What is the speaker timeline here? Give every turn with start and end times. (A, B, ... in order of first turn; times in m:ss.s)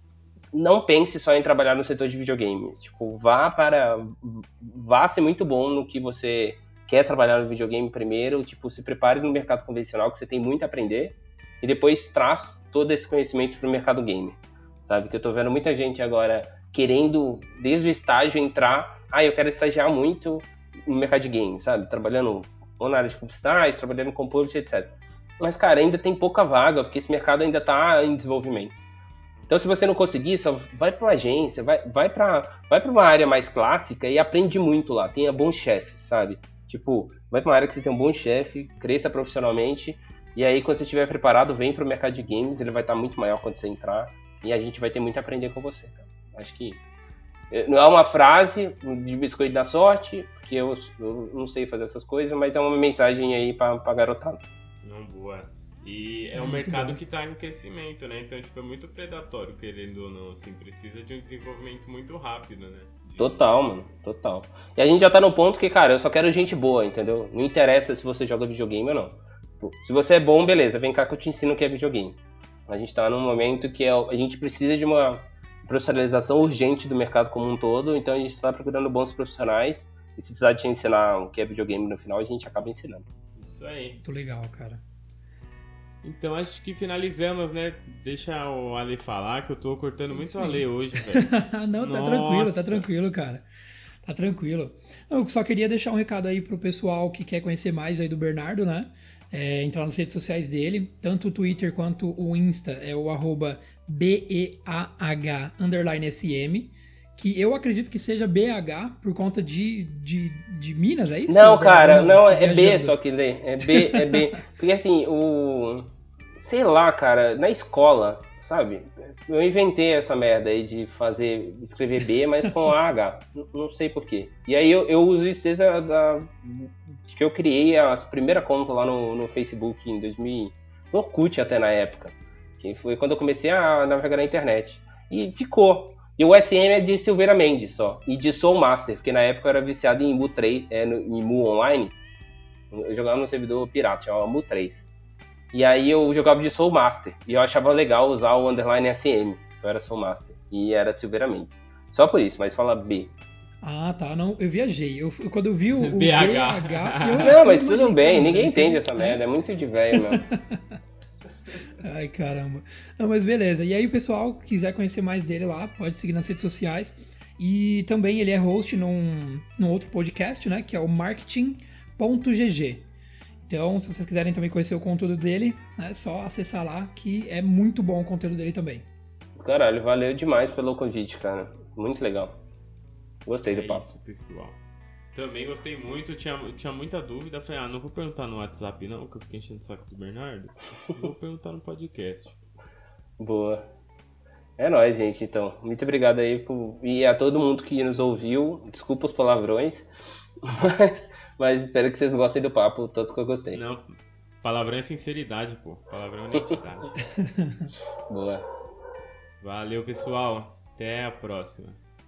0:00.5-0:28.7 A
0:29.5-0:46.8 A
0:47.5-0:54.4 A
0:54.8-1:03.6 B
0:56.3-0:57.0 C
1:03.2-1:23.1 A
1:23.4-1:24.0 B
1:24.0-1:24.8 C
1:26.0-1:32.8 B
1:30.1-1:33.4 C
1:34.0-1:53.0 C
1:51.3-2:22.0 A
1:53.6-1:54.4 C
2:22.7-2:24.9 A
2:25.5-2:33.1 A
2:33.6-2:39.2 C
2:35.8-2:37.4 B
2:37.2-2:40.2 A
2:39.9-2:40.8 C
2:41.8-2:52.9 C
2:53.5-2:58.8 C
2:59.4-3:02.4 A
3:03.2-3:03.8 A
3:03.5-3:04.6 B
3:05.1-3:12.4 B
3:13.2-3:13.7 A
3:14.6-3:23.6 A
3:23.5-3:27.0 B
3:27.2-3:27.7 C
3:28.1-3:28.4 A
3:29.4-3:31.8 B